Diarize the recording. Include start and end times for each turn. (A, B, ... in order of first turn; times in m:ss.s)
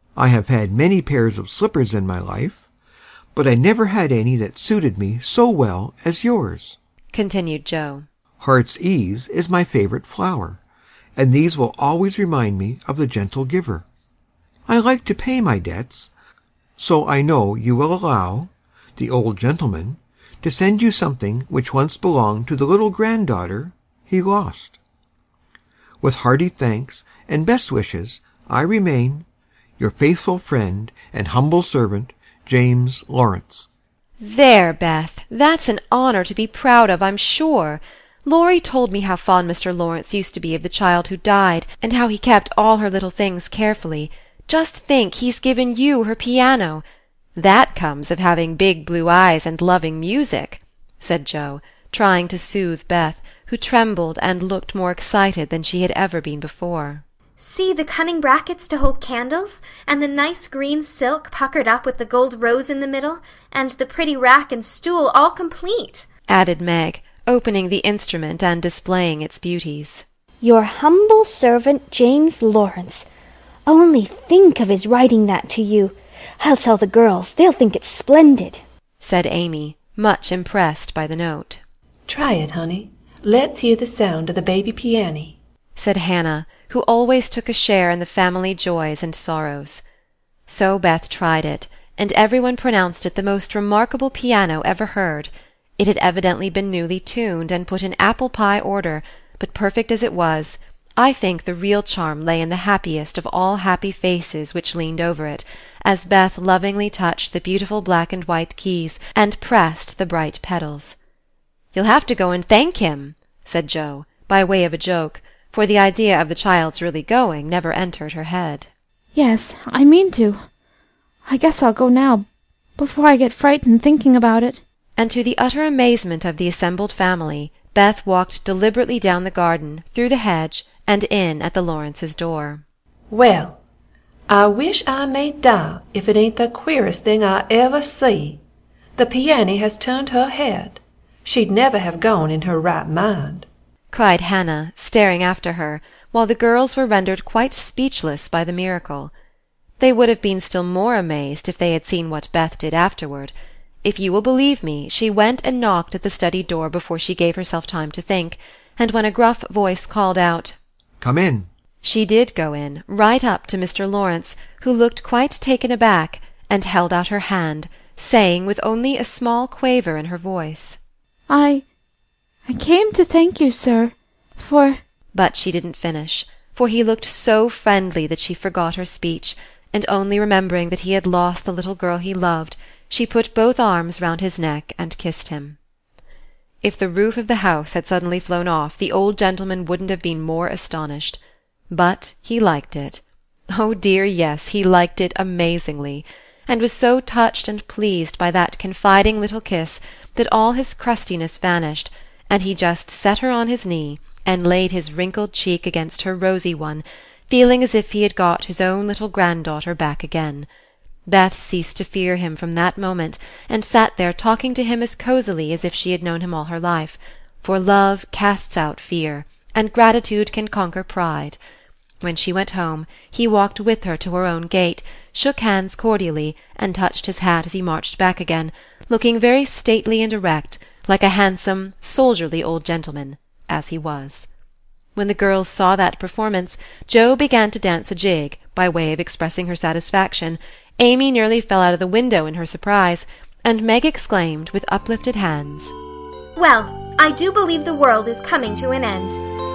0:00.2-0:02.6 A
0:03.3-0:06.8 A
0:07.1-0:08.0 B
0:08.4-0:10.6 A
0:11.2-0:13.8 A
0:14.7-0:16.1 A
0:16.8-0:24.8 A
0:26.0-0:29.2 A
0:29.8-0:33.7 A
0:34.2-0:46.8 B
0:47.4-0:57.0 B
0:57.4-1:06.1 C
1:06.3-1:10.0 B
1:10.4-1:13.0 D
1:13.7-1:18.6 D
1:19.0-1:21.6 B
1:22.1-1:25.4 E
1:25.8-1:29.8 B
1:30.5-1:51.0 B
1:51.7-1:58.7 B
1:59.1-2:00.5 F
2:01.2-2:02.3 F
2:02.8-2:04.6 F
2:05.0-2:12.6 B
2:13.1-2:13.6 E
2:14.3-2:18.4 E
2:19.0-2:23.4 E
2:23.9-2:29.1 B
2:29.8-2:40.6 B
2:41.0-2:41.5 A
2:41.8-2:50.8 B
2:51.3-2:51.6 F
2:52.5-2:54.8 F
2:55.1-3:05.6 B
3:06.6-3:11.2 B
3:11.7-3:30.5 B
3:31.1-3:41.4 B
3:42.0-3:54.3 B
3:55.0-4:05.7 B
4:06.3-4:09.2 C